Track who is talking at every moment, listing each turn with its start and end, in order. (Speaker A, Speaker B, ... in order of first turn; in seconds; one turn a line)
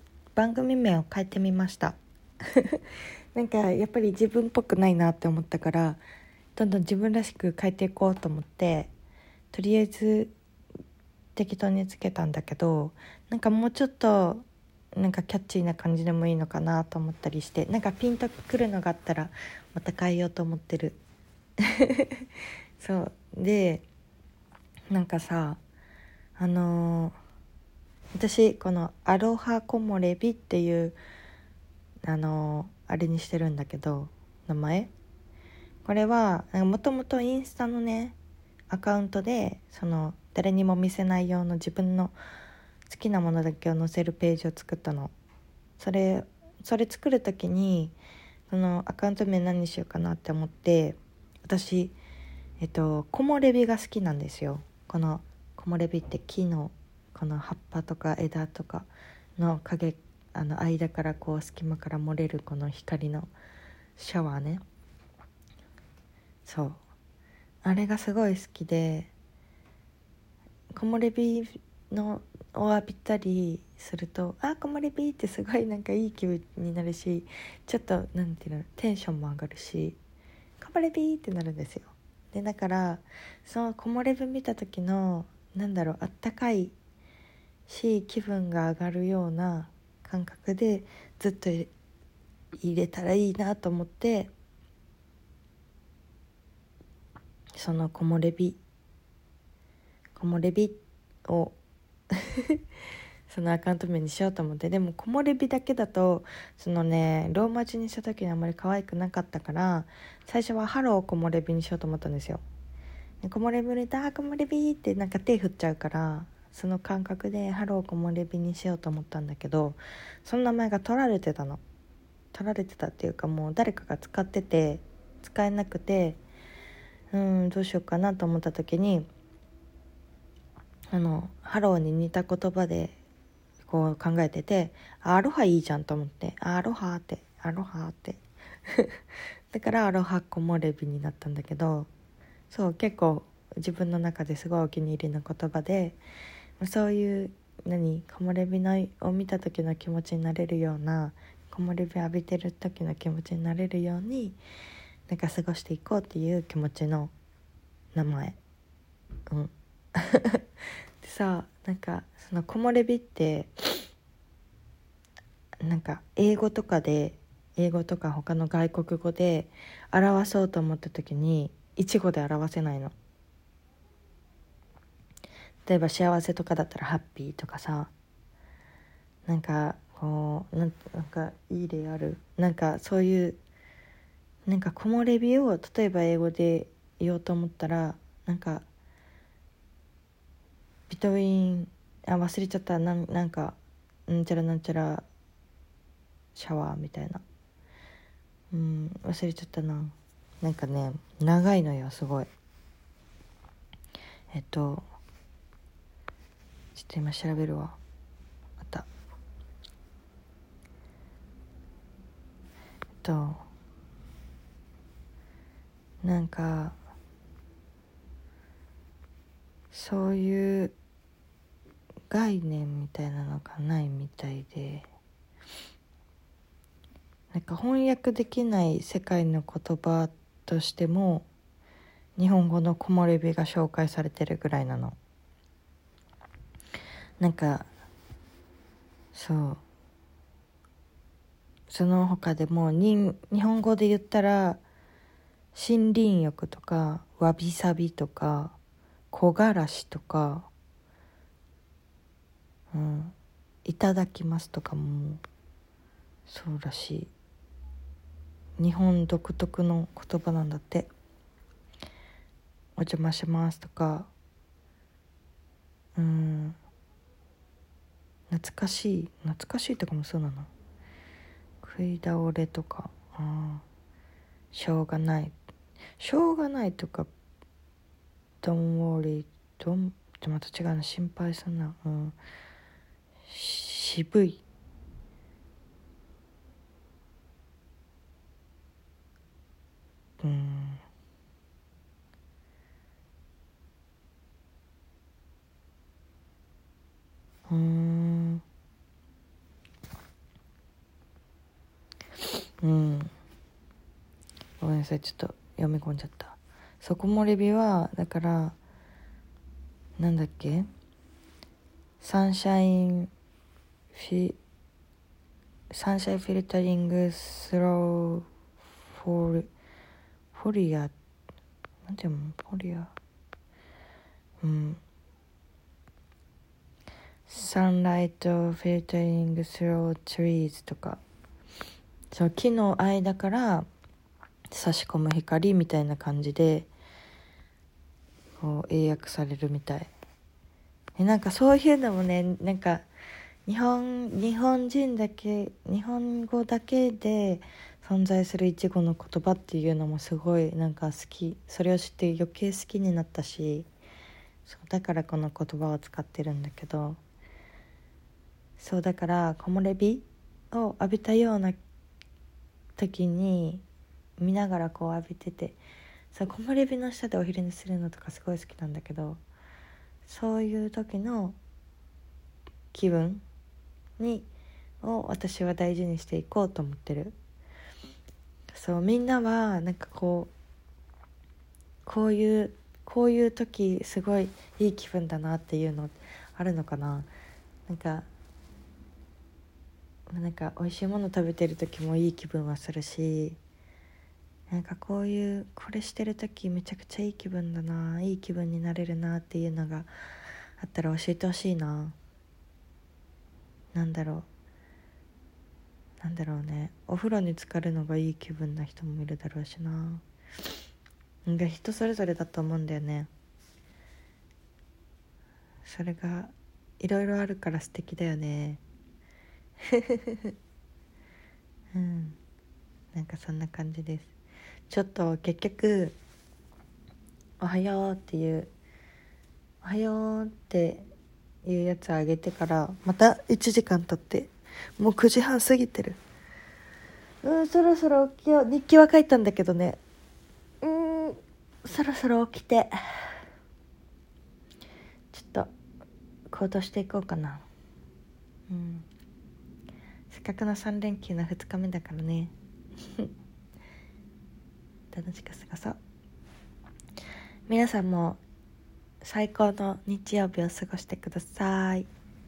Speaker A: 0.3-2.0
Speaker A: 3.3-6.0
Speaker A: 6.5-8.9
Speaker A: 9.5-10.3
Speaker A: 11.4-14.4
Speaker A: 14.9-21.0
Speaker A: 21.6-22.3
Speaker A: 22.8-23.8
Speaker A: 24.9-25.6
Speaker A: 26.4-27.2
Speaker A: 28.1-31.0
Speaker A: 32.0-34.9
Speaker A: 35.9-38.2
Speaker A: 38.7-42.2
Speaker A: 42.9-45.1
Speaker A: 45.8-48.0
Speaker A: 48.5-52.0
Speaker A: 52.6-63.3
Speaker A: 64.0-64.6
Speaker A: 66.4-66.8
Speaker A: 67.6-69.1
Speaker A: 70.7-80.0
Speaker A: 80.6-86.7
Speaker A: 87.7-91.7
Speaker A: 92.6-94.3
Speaker A: 97.6-98.6
Speaker A: 100.1-101.5
Speaker A: 102.1-102.6
Speaker A: 103.3-112.4
Speaker A: 113.2-121.6
Speaker A: 122.3-126.2
Speaker A: 127.1-129.1
Speaker A: 130.9-133.0
Speaker A: 133.6-139.0
Speaker A: 139.5-141.9
Speaker A: 142.5-146.0
Speaker A: 146.6-154.4
Speaker A: 155.1-157.1
Speaker A: 157.9-158.4
Speaker A: 159.3-160.4
Speaker A: 161.0-163.9
Speaker A: 165.7-172.9
Speaker A: 175.7-177.9
Speaker A: 179.3-183.4
Speaker A: 184.5-188.7
Speaker A: 190.9-193.6
Speaker A: 194.1-195.1
Speaker A: 196.3-197.2
Speaker A: 198.5-202.3
Speaker A: 204.3-204.8
Speaker A: 206.8-207.8
Speaker A: 208.6-208.9
Speaker A: 213.0-213.4
Speaker A: 216.0-216.8
Speaker A: 219.7-220.8
Speaker A: 222.1-224.9
Speaker A: 227.3-231.3
Speaker A: 232.2-235.0
Speaker A: 237.2-237.7
Speaker A: 239.1-239.6
Speaker A: 241.7-244.6
Speaker A: 245.5-248.6
Speaker A: 249.1-250.5
Speaker A: 252.7-253.1
Speaker A: 253.7-255.2
Speaker A: 256.3-257.1
Speaker A: 258.6-260.9
Speaker A: 262.8-264.1
Speaker A: 265.9-266.6
Speaker A: 268.3-270.5
Speaker A: 271.6-273.6
Speaker A: 274.5-275.3
Speaker A: 276.0-277.1
Speaker A: 278.4-282.2
Speaker A: 283.3-284.4
Speaker A: 290.2-290.8
Speaker A: 297.5-298.4
Speaker A: 302.6-303.1
Speaker A: 304.6-308.6
Speaker A: 310.0-310.7
Speaker A: 312.0-313.1
Speaker A: 313.9-314.4
Speaker A: 315.7-318.2
Speaker A: 318.9-319.5
Speaker A: 320.3-320.9
Speaker A: 321.9-322.9
Speaker A: 324.4-324.8
Speaker A: 327.3-331.0
Speaker A: 332.1-333.7
Speaker A: 334.5-336.7
Speaker A: 338.4-339.9
Speaker A: 341.0-342.8
Speaker A: 343.4-353.7
Speaker A: 354.4-357.0
Speaker A: 358.6-361.6
Speaker A: 362.8-363.6
Speaker A: 364.2-365.6
Speaker A: 366.1-369.2
Speaker A: 370.0-371.4
Speaker A: 372.7-373.2
Speaker A: 374.0-374.3
Speaker A: 374.8-377.1
Speaker A: 378.5-380.3
Speaker A: 381.8-387.1
Speaker A: 387.7-388.1
Speaker A: 390.1-393.4
Speaker A: 394.5-399.9
Speaker A: 400.6-401.9
Speaker A: 403.7-404.2
Speaker A: 406.0-410.0
Speaker A: 411.2-413.1
Speaker A: 415.6-418.6
Speaker A: 419.7-420.3
Speaker A: 421.7-422.2
Speaker A: 422.9-424.1
Speaker A: 424.7-425.9
Speaker A: 427.4-428.5
Speaker A: 429.6-430.9
Speaker A: 431.4-436.0
Speaker A: 437.2-439.8
Speaker A: 440.6-443.1
Speaker A: 445.1-445.5
Speaker A: 446.3-447.4
Speaker A: 448.5-448.9
Speaker A: 450.1-452.3
Speaker A: 454.9-455.8
Speaker A: 457.5-458.2
Speaker A: 459.0-461.9